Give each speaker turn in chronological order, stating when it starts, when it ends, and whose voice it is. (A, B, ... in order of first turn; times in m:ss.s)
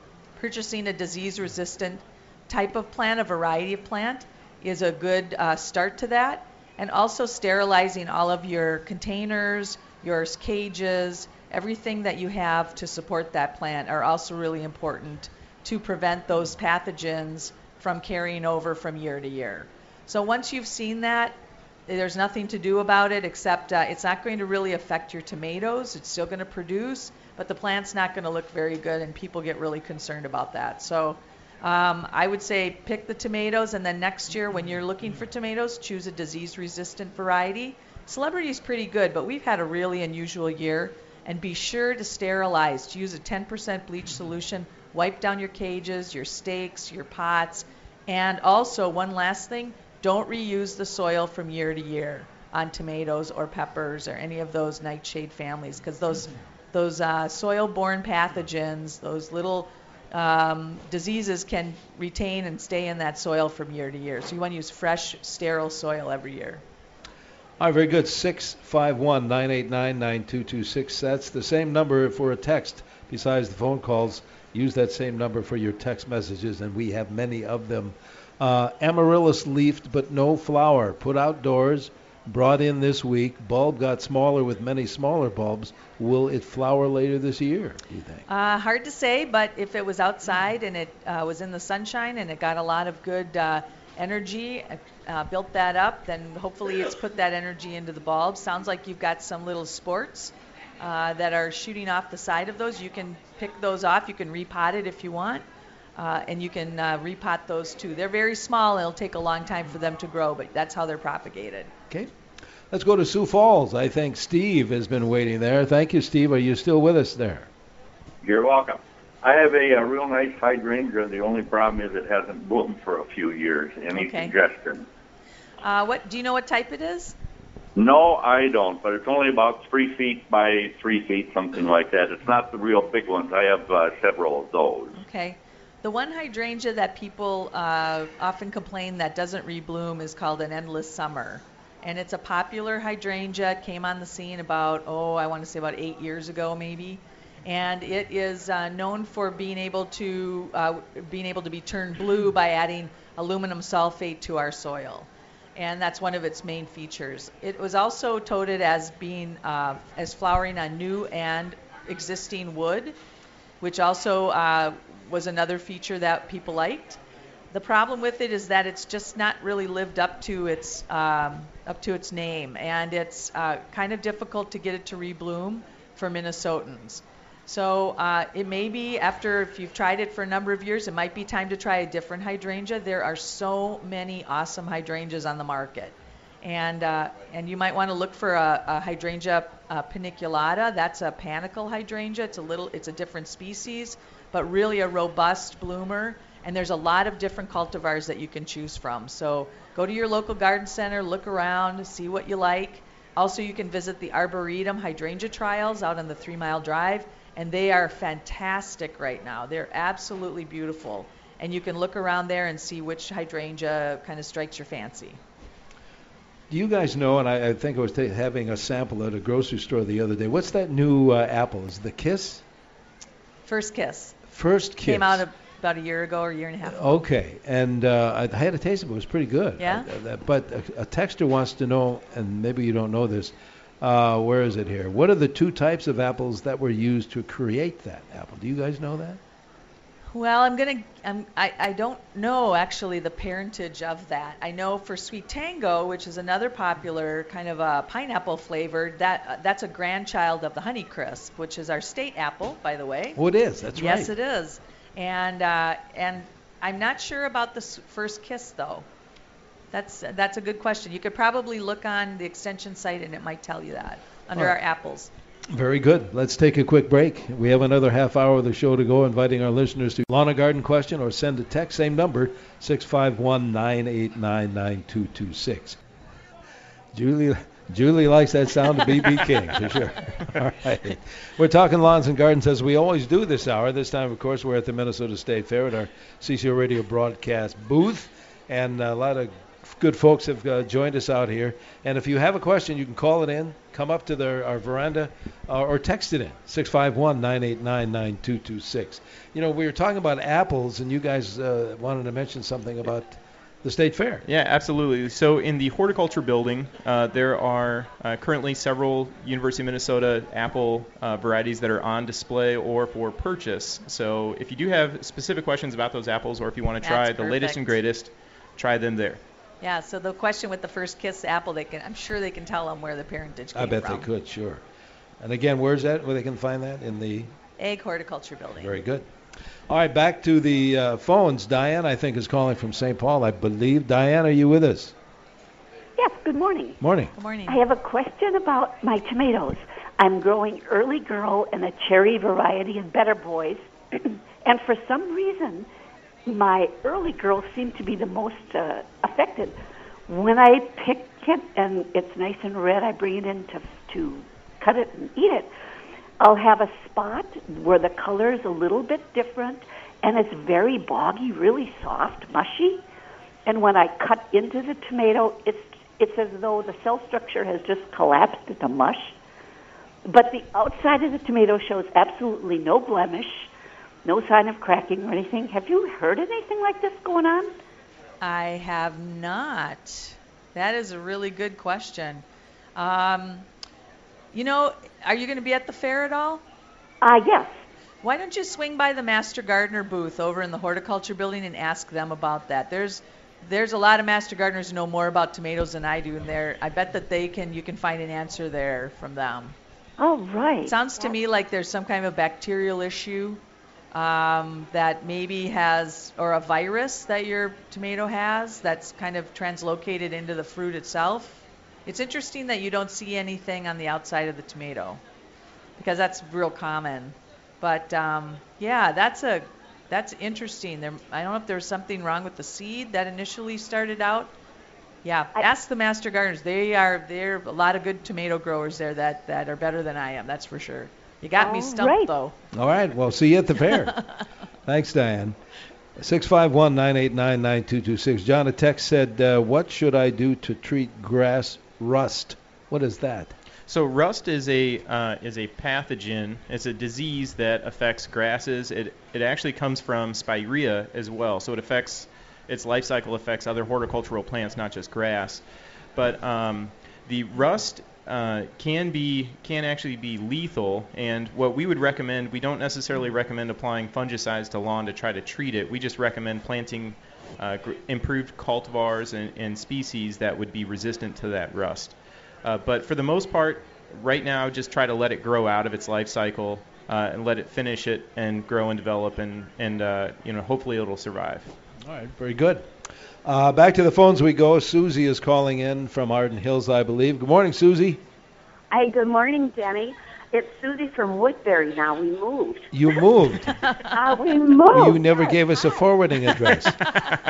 0:00.4-1:06.6 A
1:07.6-1:28.2 B
1:28.3-1:45.4 A
1:46.0-1:51.7 A
1:52.7-1:57.5 B
1:58.2-2:04.8 C
2:03.9-2:04.3 A
2:05.6-2:07.1 A
2:07.8-2:14.9 C
2:14.9-2:43.0 A
2:43.6-2:47.0 A
2:47.5-3:35.2 A
3:36.5-3:42.4 B
3:43.5-3:44.2 A
3:44.3-3:45.2 B
3:44.8-3:47.0 A
3:46.6-3:59.2 B
3:49.6-3:49.9 A
4:00.1-4:13.2 A
4:13.2-4:14.1 B
4:13.7-4:18.8 A
4:19.7-4:25.1 A
4:25.5-4:35.8 B
4:36.9-5:04.2 B
5:04.2-5:19.2 D
5:16.8-5:17.8 A
5:19.6-5:24.1 A
5:23.5-5:24.6 B
5:25.2-5:27.3 B
5:27.6-5:28.7 A
5:28.6-5:29.1 B
5:29.7-5:34.9 B
5:36.0-5:36.8 E
5:36.8-5:37.1 B
5:37.2-5:37.6 A
5:37.5-5:45.7 E
5:46.2-5:49.6 E
5:50.1-5:55.5 E
5:56.2-6:02.8 E
6:03.4-6:09.1 E
6:10.0-6:13.5 E
6:14.0-6:17.6 E
6:18.2-6:22.2 A
6:22.8-6:23.4 A
6:24.3-6:26.4 A
6:27.0-6:27.6 E
6:28.0-6:39.5 A
6:40.0-6:41.1 E
6:40.6-6:43.4 A
6:43.9-6:55.0 A
6:55.8-7:04.3 A
7:05.0-7:12.3 A
7:11.4-7:12.1 E
7:12.5-7:14.0 B
7:14.6-7:15.4 B
7:16.0-7:23.3 B
7:23.7-7:35.4 D
7:36.0-8:01.5 D
8:01.8-8:02.7 B
8:03.2-8:08.0 B
8:08.7-8:12.9 F
8:12.7-8:13.6 B
8:13.6-8:13.9 A
8:13.9-8:15.8 F
8:14.7-8:17.0 B